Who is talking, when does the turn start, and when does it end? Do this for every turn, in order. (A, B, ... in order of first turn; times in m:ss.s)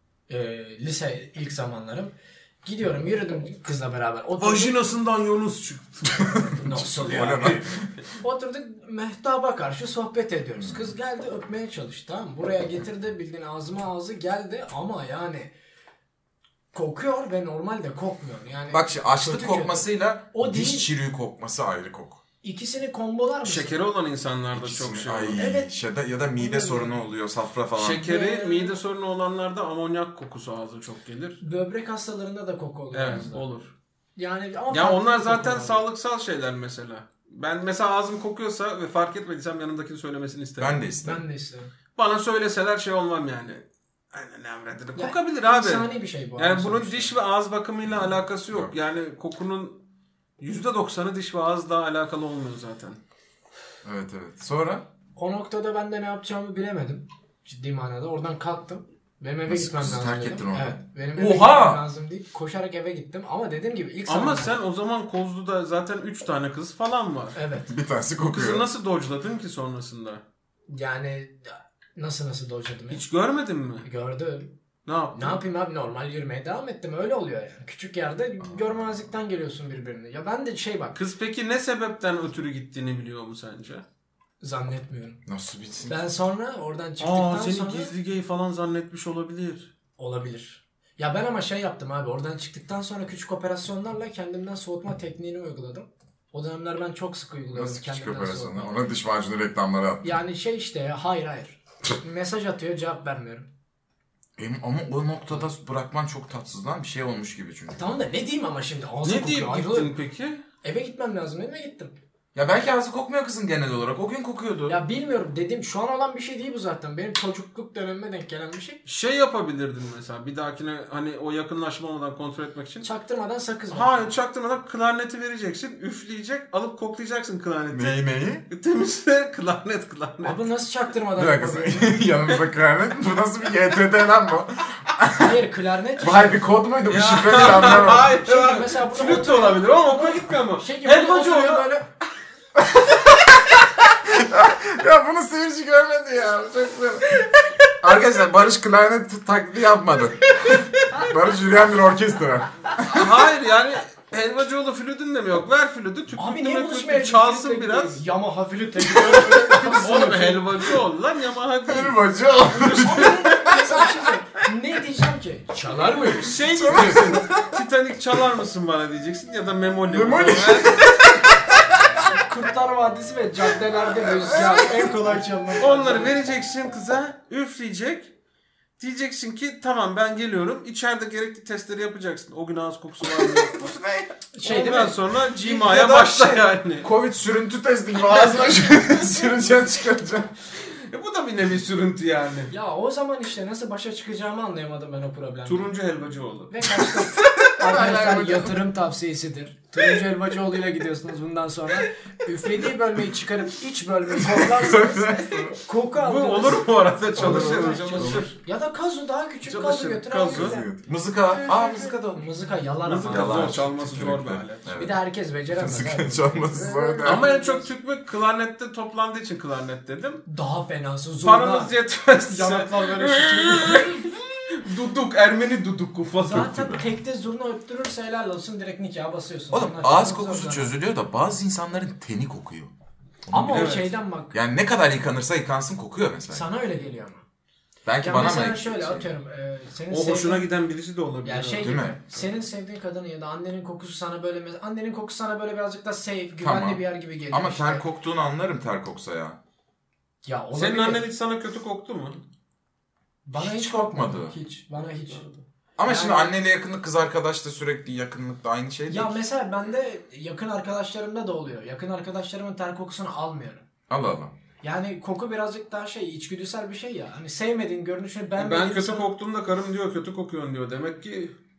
0:00.3-0:02.1 A
0:02.6-0:04.8 A
0:04.4-0:06.4 B
0:06.2-0:07.9 C
0:06.5-0:07.7 A
0:08.2-0:15.5 A
0:10.6-0:10.9 C
0:16.7-0:20.9 A
0:18.7-0:22.2 C
0:22.4-0:23.8 A
0:23.4-0:25.4 B
0:24.5-0:28.1 C
0:25.4-0:25.7 A
0:26.4-0:27.0 A
0:27.8-0:31.4 B
0:28.0-0:28.8 A
0:31.4-0:33.5 A
0:32.9-0:33.7 B
0:34.2-0:35.8 A
0:34.7-0:40.8 B
0:40.6-0:41.2 C
0:41.0-0:41.7 A
0:42.0-0:49.8 B
0:45.0-0:47.1 A
0:50.4-0:53.0 B
0:53.8-0:54.9 C
0:55.2-1:04.6 A
0:59.5-1:01.8 C
1:04.1-1:07.4 B
1:07.4-1:07.7 A
1:07.7-1:08.7 C
1:08.2-1:10.2 B
1:10.7-1:13.0 A
1:12.9-1:13.9 B
1:13.8-1:14.5 A
1:14.9-1:15.4 B
1:15.1-1:21.0 A
1:21.0-1:23.8 B
1:24.4-1:25.2 A
1:25.3-1:26.0 C
1:25.9-1:27.9 A
1:27.0-1:29.7 B
1:30.0-1:38.9 A
1:37.5-1:40.2 C
1:40.0-1:43.5 A
1:44.4-1:47.9 C
1:47.8-1:50.0 A
1:49.0-1:50.4 B
1:50.6-1:52.0 A
1:52.3-1:54.8 C
1:54.7-1:58.8 A
1:58.8-2:02.9 B
2:02.8-2:04.1 A
2:03.7-2:10.4 B
2:07.7-2:08.5 C
2:10.2-2:12.0 A
2:11.2-2:15.4 C
2:15.2-2:16.4 A
2:16.0-2:18.2 C
2:16.9-2:21.7 B
2:17.8-2:21.8 A
2:22.6-2:27.3 C
2:27.8-2:33.2 C
2:32.9-2:38.0 B
2:36.1-2:40.5 A
2:38.9-2:39.5 C
2:39.2-2:43.2 B
2:41.7-2:44.1 C
2:42.8-2:47.3 A
2:46.2-2:50.9 B
2:46.5-2:47.6 C
2:49.9-2:52.1 C
2:52.0-2:56.2 A
2:54.0-2:55.2 C
2:55.6-2:58.1 B
2:58.8-3:03.8 B
3:03.1-3:10.3 C
3:04.3-3:05.0 A
3:04.4-3:06.9 B
3:10.7-3:12.5 B
3:12.5-3:15.7 A
3:15.5-3:17.0 B
3:16.5-3:30.7 A
3:17.2-3:18.6 C
3:24.2-3:25.6 C
3:26.0-3:28.3 B
3:27.2-3:28.3 C
3:29.5-3:30.6 B
3:30.3-3:32.3 C
3:31.4-3:33.7 A
3:32.8-3:34.8 B
3:33.1-3:35.0 C
3:34.8-3:37.7 A
3:35.5-3:37.3 C
3:37.0-3:40.2 B
3:40.3-3:41.7 A
3:41.2-3:46.5 B
3:42.3-3:44.1 A
3:46.2-3:50.7 A
3:46.3-3:46.9 C
3:49.5-3:52.7 C
3:53.3-3:56.4 C
3:53.3-3:54.3 A
3:53.5-3:53.9 B
3:56.3-3:57.2 A
3:57.8-3:59.1 C
3:58.0-4:00.5 A
3:59.9-4:02.3 B
4:01.2-4:07.8 A
4:01.6-4:02.0 C
4:06.4-4:09.4 C
4:10.2-4:11.0 A
4:10.6-4:12.2 B
4:13.3-4:16.4 A
4:13.4-4:14.4 C
4:15.8-4:19.2 C
4:18.9-4:23.7 A
4:23.9-4:24.3 C
4:24.6-4:29.1 A
4:28.4-4:31.4 B